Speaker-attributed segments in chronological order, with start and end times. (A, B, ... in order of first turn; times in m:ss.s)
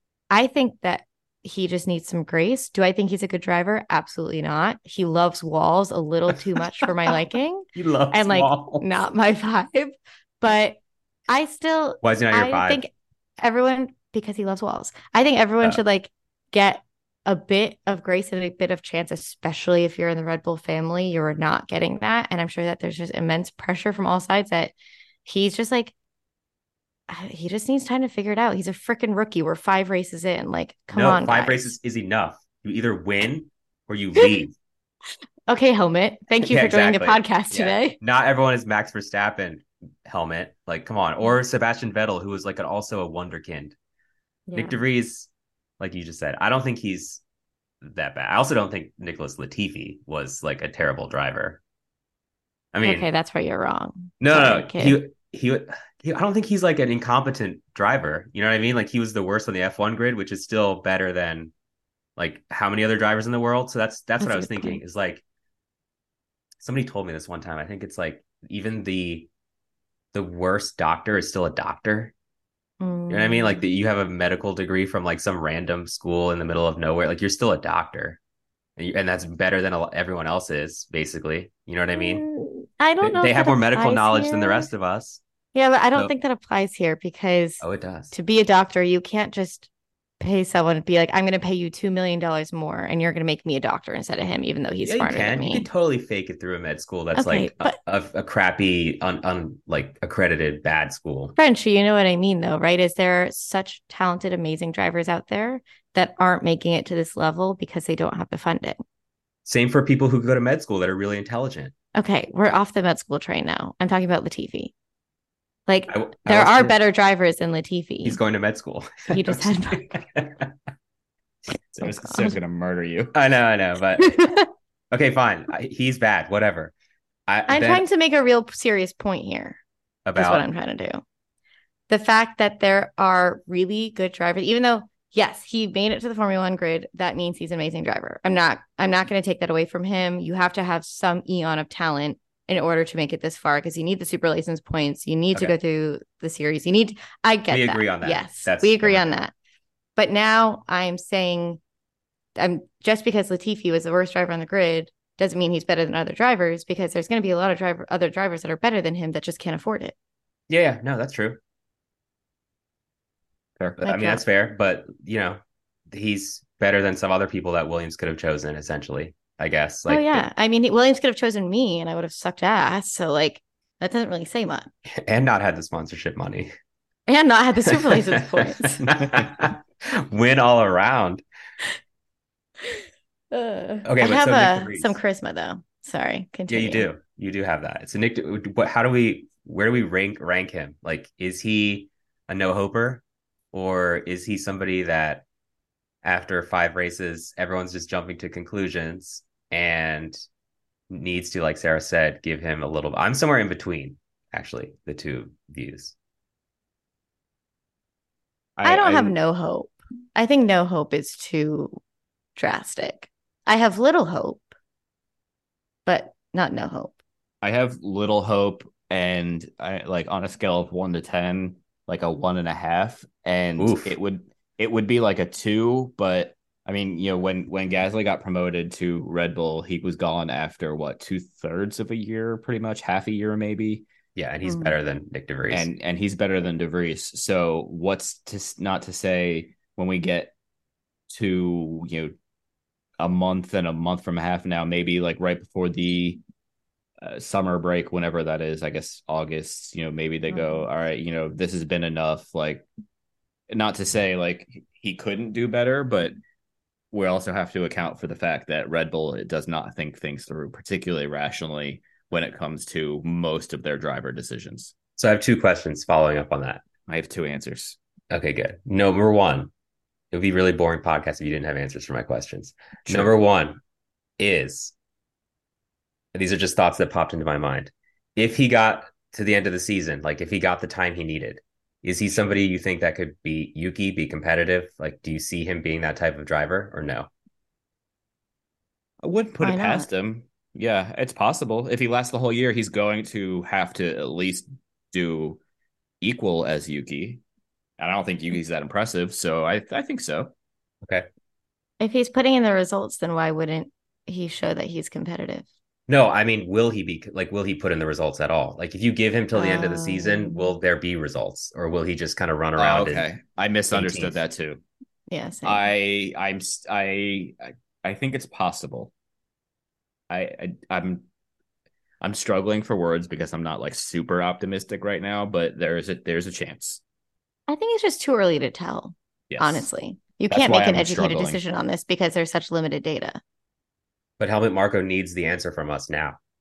0:00.3-0:10.8 A
0:07.8-0:08.9 B
0:11.3-0:24.7 A
0:12.0-0:12.8 B
0:25.2-0:25.9 A
0:27.1-0:31.7 A
0:30.9-0:34.5 B
0:35.5-0:38.0 A
0:36.4-0:43.8 B
0:44.5-0:44.8 A
0:44.6-0:47.2 B
0:47.8-0:51.6 B
0:52.7-0:53.1 B
0:52.8-0:55.0 A
0:54.2-1:01.5 B
1:02.2-1:05.2 B
1:04.2-1:04.8 A
1:06.6-1:09.3 B
1:10.1-1:12.1 B
1:12.8-1:13.6 A
1:13.1-1:18.2 B
1:18.8-1:22.3 B
1:22.0-1:24.7 A
1:23.0-1:25.2 B
1:25.6-1:29.7 A
1:27.6-1:28.1 B
1:30.2-1:35.7 A
1:34.8-1:41.4 B
1:37.2-1:37.8 A
1:41.4-1:48.8 A
1:49.5-1:51.7 B
1:52.0-1:54.7 A
1:55.7-1:58.2 A
1:55.9-1:56.8 B
1:58.0-2:00.5 B
1:59.1-2:00.0 A
2:01.8-2:03.1 C
2:01.8-2:02.4 A
2:03.1-2:04.2 B
2:04.0-2:04.5 A
2:04.9-2:06.7 B
2:07.3-2:07.8 B
2:07.5-2:09.6 A
2:10.1-2:10.4 B
2:10.2-2:11.0 A
2:11.9-2:29.3 A
2:27.5-2:29.0 B
2:30.0-2:31.6 A
2:32.4-2:40.0 A
2:40.5-2:41.4 B
2:43.8-2:45.4 B
2:43.8-2:44.2 A
2:45.9-2:50.3 B
2:49.9-2:54.7 A
2:55.0-2:56.5 B
2:57.1-2:58.8 A
2:57.7-3:01.2 B
3:02.6-3:06.9 A
3:03.8-3:05.0 B
3:06.5-3:15.2 B
3:16.0-3:20.2 B
3:20.9-3:26.0 B
3:28.6-3:29.2 C
3:28.6-3:31.8 A
3:32.4-3:34.6 A
3:35.9-3:37.0 A
3:37.4-3:53.9 C
3:43.6-3:44.0 B
3:54.2-3:55.7 B
3:54.5-3:54.7 A
3:55.5-4:00.3 C
4:01.1-4:02.2 C
4:03.0-4:06.2 C
4:07.0-4:12.7 C
4:10.3-4:10.6 A
4:13.5-4:16.2 C
4:16.9-4:24.7 C
4:25.0-4:26.6 B
4:26.9-4:27.8 C
4:28.1-4:29.5 B
4:30.1-4:33.6 B
4:34.2-4:34.7 B
4:36.1-4:47.1 B
4:49.0-4:55.4 C
4:49.4-4:49.9 A
4:56.0-4:57.2 C
4:57.8-5:00.3 C
5:01.8-5:05.5 A
5:05.9-5:13.1 B
5:09.3-5:10.5 A
5:12.6-5:14.6 C
5:13.7-5:14.2 B
5:15.1-5:15.7 A
5:15.4-5:18.9 C
5:20.1-5:21.1 C
5:22.0-5:26.8 C
5:27.5-5:33.2 A
5:29.3-5:29.7 C
5:30.3-5:31.4 C
5:34.2-5:36.2 B